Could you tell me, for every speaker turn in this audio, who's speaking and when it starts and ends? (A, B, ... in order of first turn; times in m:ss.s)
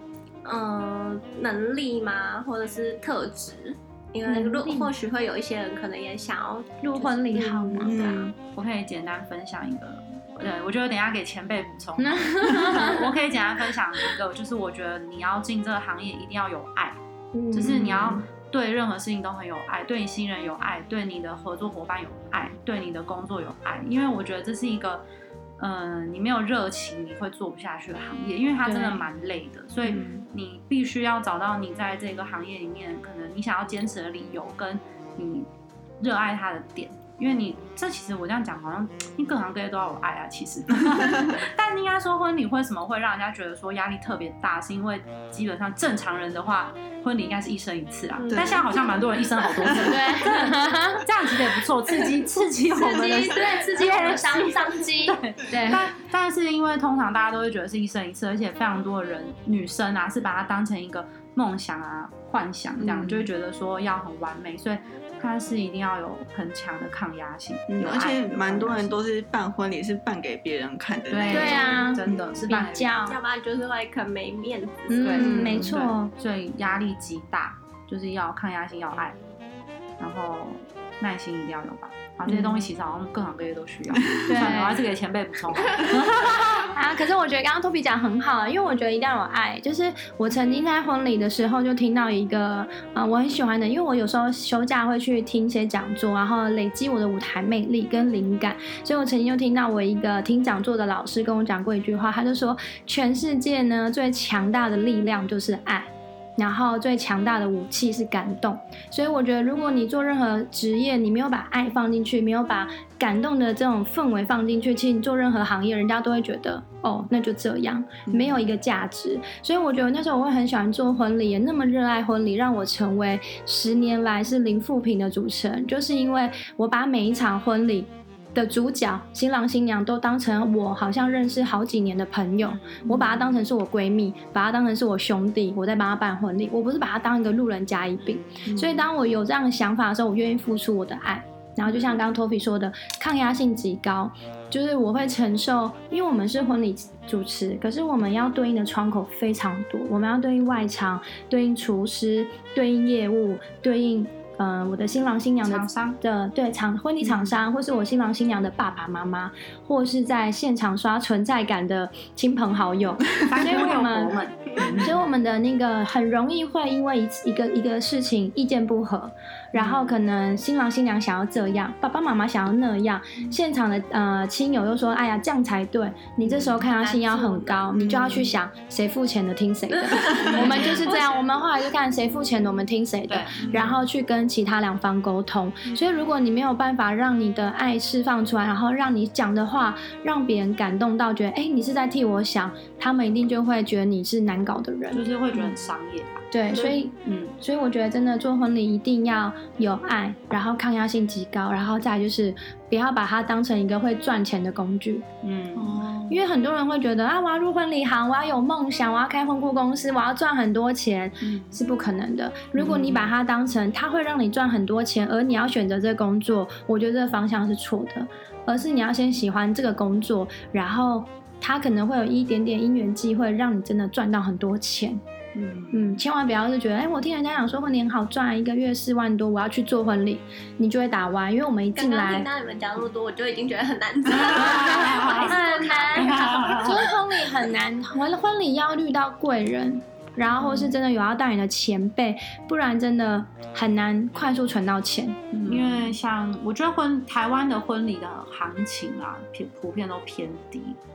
0:00.4-0:08.3 A
0:04.2-0:04.9 B
0:06.8-0:08.0 B
0:07.8-0:08.3 C
0:08.0-0:17.0 D
0:12.0-0:13.1 B
0:17.3-0:18.1 B
0:17.5-0:25.0 D
0:17.6-0:18.2 C
0:25.6-0:35.5 D
0:28.6-0:29.0 B
0:36.0-1:08.9 D
0:40.9-0:41.4 C
0:48.2-0:48.9 A
0:48.3-0:48.9 C
0:49.6-0:50.0 C
0:49.8-0:51.0 B
0:52.8-0:55.9 B
0:52.8-0:54.7 A
1:02.8-1:03.3 C
1:07.7-1:12.3 C
1:11.1-1:12.9 D
1:11.3-1:13.2 B
1:13.1-1:15.2 A
1:14.9-1:16.1 B
1:15.0-1:19.2 D
1:15.2-1:15.8 C
1:20.0-1:26.7 D
1:23.9-1:24.6 C
1:24.3-1:24.8 B
1:26.6-3:15.4 B
1:58.1-1:58.4 C
2:12.4-2:12.8 D
2:12.9-2:13.2 C
2:18.4-2:18.8 C
2:21.7-2:22.0 C
2:35.4-2:36.0 D
2:43.2-2:45.0 D
2:49.6-2:50.0 D
2:56.8-2:57.8 A
2:57.7-2:58.4 C
2:59.7-3:00.9 A
3:00.0-3:00.7 C
3:00.3-3:00.9 D
3:03.1-3:03.8 D
3:03.4-3:03.8 C
3:14.9-3:16.3 D
3:16.3-3:25.0 B
3:17.0-3:17.3 D
3:25.2-3:25.8 D
3:25.5-3:26.2 C
3:26.1-3:45.0 B
3:31.2-3:31.6 C
3:32.6-3:33.1 D
3:45.4-3:46.0 C
3:45.7-3:52.3 B
3:51.8-3:57.0 A
3:54.1-3:55.4 D
3:54.5-4:05.2 B
3:55.9-3:56.9 D
4:05.3-4:05.9 C
4:05.4-4:10.8 D